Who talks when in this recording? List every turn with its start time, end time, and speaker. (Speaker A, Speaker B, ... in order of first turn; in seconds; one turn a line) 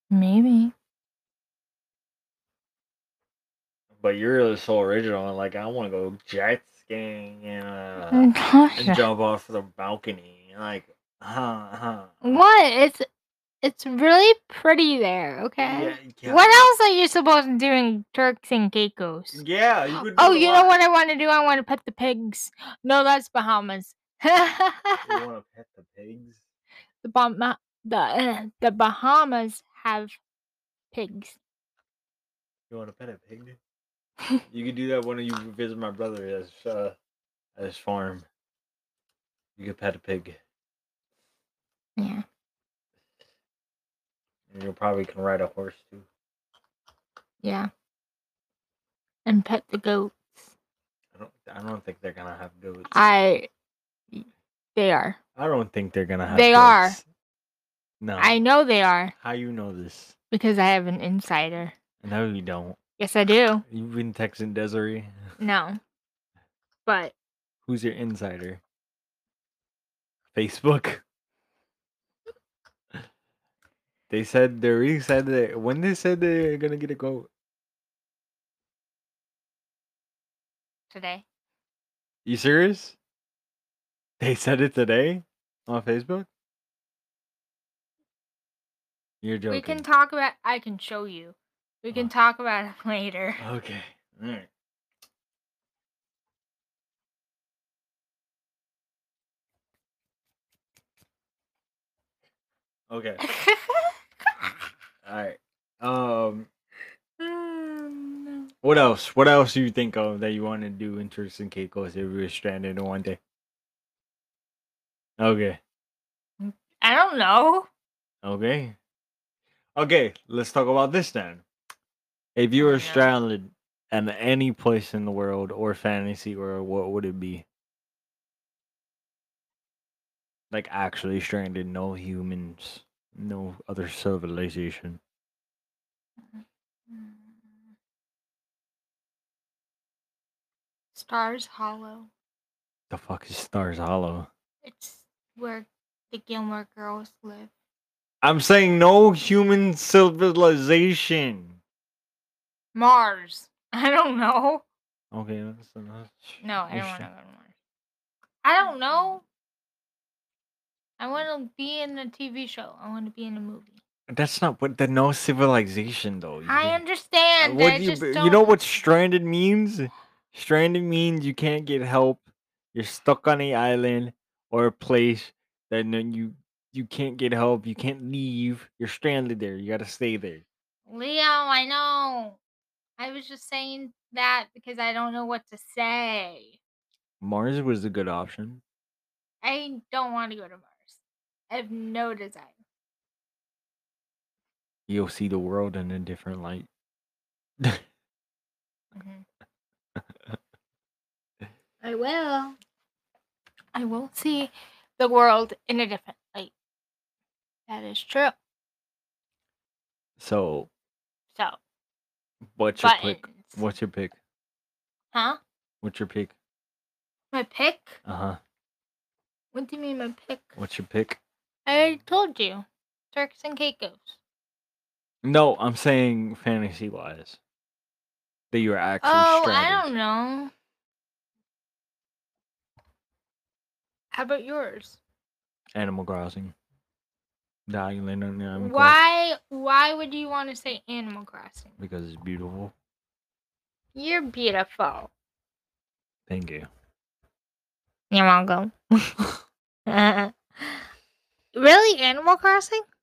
Speaker A: 0.1-0.7
Speaker B: 4.0-12.4
Speaker A: 8.1-9.0
Speaker A: 12.2-13.0
Speaker A: 13.6-19.4
Speaker B: 15.6-16.7
Speaker B: 19.3-20.7
Speaker A: 19.9-25.2
Speaker B: 25.0-26.4
Speaker A: 27.0-30.1
Speaker A: 30.9-31.4
Speaker B: 32.7-33.6
Speaker B: 34.5-37.0
Speaker B: 37.5-38.2
Speaker B: 39.6-40.4
Speaker A: 42.0-42.2
Speaker B: 44.5-46.1
Speaker A: 47.4-47.7
Speaker A: 49.2-50.5
Speaker B: 51.1-53.0
Speaker A: 52.9-53.5
Speaker A: 54.1-55.2
Speaker B: 55.4-57.0
Speaker A: 56.3-57.0
Speaker B: 58.0-58.4
Speaker A: 58.2-59.1
Speaker B: 59.2-60.1
Speaker A: 60.3-61.7
Speaker B: 62.0-62.8
Speaker A: 63.0-63.6
Speaker B: 63.7-65.1
Speaker A: 65.4-65.8
Speaker A: 66.8-67.1
Speaker B: 67.6-68.6
Speaker B: 70.3-71.0
Speaker B: 74.1-77.3
Speaker A: 80.9-81.2
Speaker B: 82.2-83.0
Speaker B: 84.2-86.3
Speaker B: 89.2-89.8
Speaker A: 89.5-93.4
Speaker B: 93.4-94.5
Speaker B: 102.9-103.2
Speaker A: 103.2-104.0
Speaker B: 105.0-106.5
Speaker A: 107.2-108.5
Speaker B: 108.6-113.2
Speaker B: 115.2-115.6
Speaker A: 116.4-117.7
Speaker B: 118.2-118.8
Speaker B: 119.8-121.4
Speaker B: 122.3-127.5
Speaker A: 122.6-123.1
Speaker B: 130.5-135.0
Speaker A: 136.2-137.7
Speaker A: 140.9-142.1
Speaker B: 142.9-144.3
Speaker A: 144.6-147.5
Speaker B: 148.2-151.6
Speaker A: 152.7-154.6
Speaker B: 155.1-157.1
Speaker A: 156.4-157.5
Speaker A: 158.4-159.2
Speaker A: 161.0-163.8
Speaker B: 164.1-166.8
Speaker A: 166.4-168.6
Speaker B: 167.4-180.4
Speaker A: 180.9-182.4
Speaker A: 183.0-186.6
Speaker B: 187.2-188.6
Speaker A: 189.4-192.5
Speaker B: 194.9-196.7
Speaker A: 198.9-199.2
Speaker A: 201.8-202.6
Speaker A: 203.7-206.5
Speaker A: 207.7-208.3
Speaker B: 210.2-210.7
Speaker B: 212.6-214.2
Speaker A: 212.8-213.6
Speaker A: 215.1-215.4
Speaker B: 215.8-216.3
Speaker A: 217.3-218.0
Speaker B: 218.0-218.4
Speaker A: 219.5-220.5
Speaker B: 220.6-221.2
Speaker A: 221.7-224.2
Speaker B: 225.2-227.4
Speaker B: 228.5-229.9
Speaker A: 229.0-230.5
Speaker A: 234.1-235.0
Speaker B: 235.7-236.5
Speaker B: 237.7-239.0
Speaker A: 238.5-241.8
Speaker B: 241.8-242.7
Speaker A: 243.9-245.1
Speaker B: 246.3-246.7
Speaker A: 248.1-249.2
Speaker A: 249.9-250.9
Speaker A: 251.5-252.8